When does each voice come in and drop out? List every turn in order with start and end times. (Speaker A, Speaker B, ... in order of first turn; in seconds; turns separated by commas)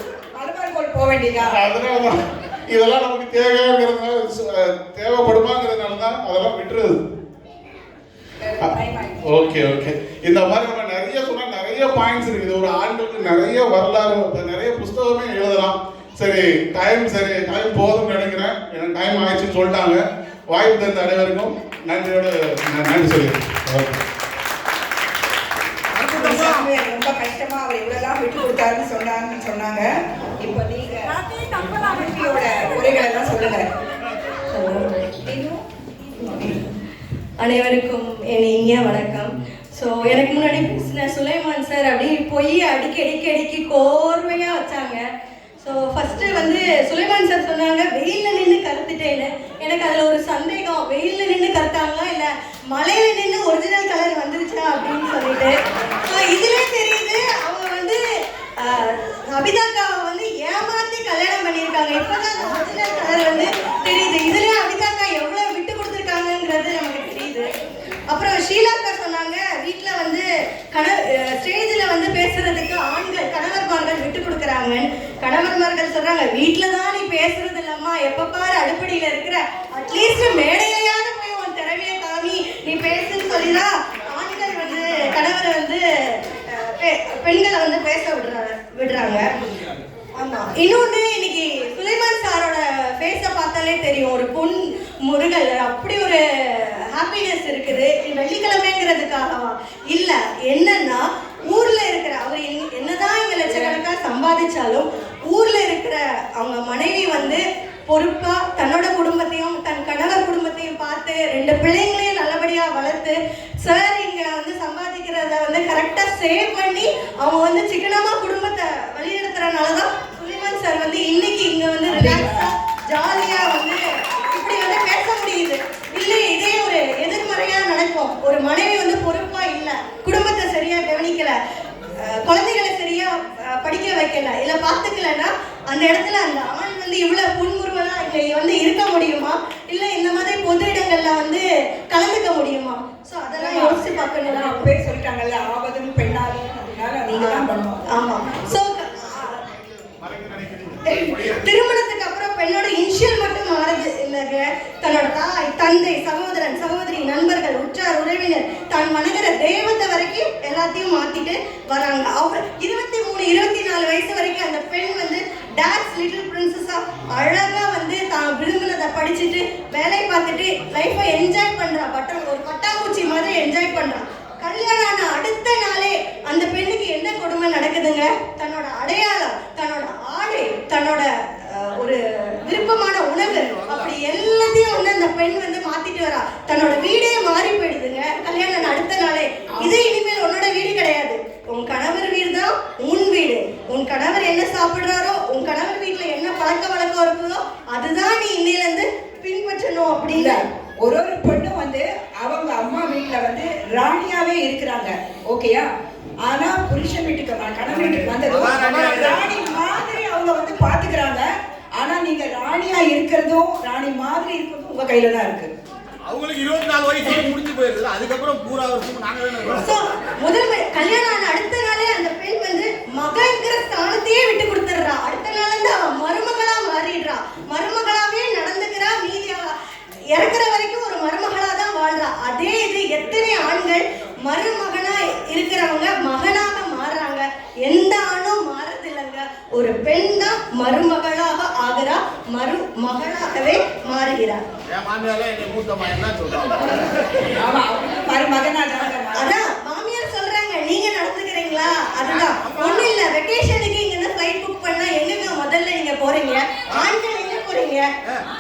Speaker A: 0.3-1.6, Speaker B: 1.5-7.0, Speaker A: 8.4-9.4, Speaker B: 9.2-24.0, Speaker C: 25.9-26.7, Speaker A: 26.0-33.7, Speaker D: 31.3-31.8, Speaker D: 34.5-34.9, Speaker A: 35.2-35.6, Speaker D: 36.3-36.5, Speaker D: 37.4-45.0, Speaker D: 45.6-58.0, Speaker D: 58.6-67.5, Speaker D: 68.1-89.3, Speaker D: 90.2-131.4, Speaker A: 121.9-122.5, Speaker D: 132.0-144.7, Speaker A: 143.4-147.8, Speaker D: 147.1-149.5, Speaker B: 149.9-151.5, Speaker D: 150.8-200.4, Speaker C: 183.3-183.9, Speaker A: 200.1-205.7, Speaker A: 206.2-215.5, Speaker C: 208.1-209.2, Speaker C: 216.1-219.7, Speaker D: 219.5-229.6, Speaker D: 230.1-244.4, Speaker C: 244.7-247.0, Speaker A: 247.3-249.4, Speaker D: 249.1-257.9, Speaker C: 252.2-252.9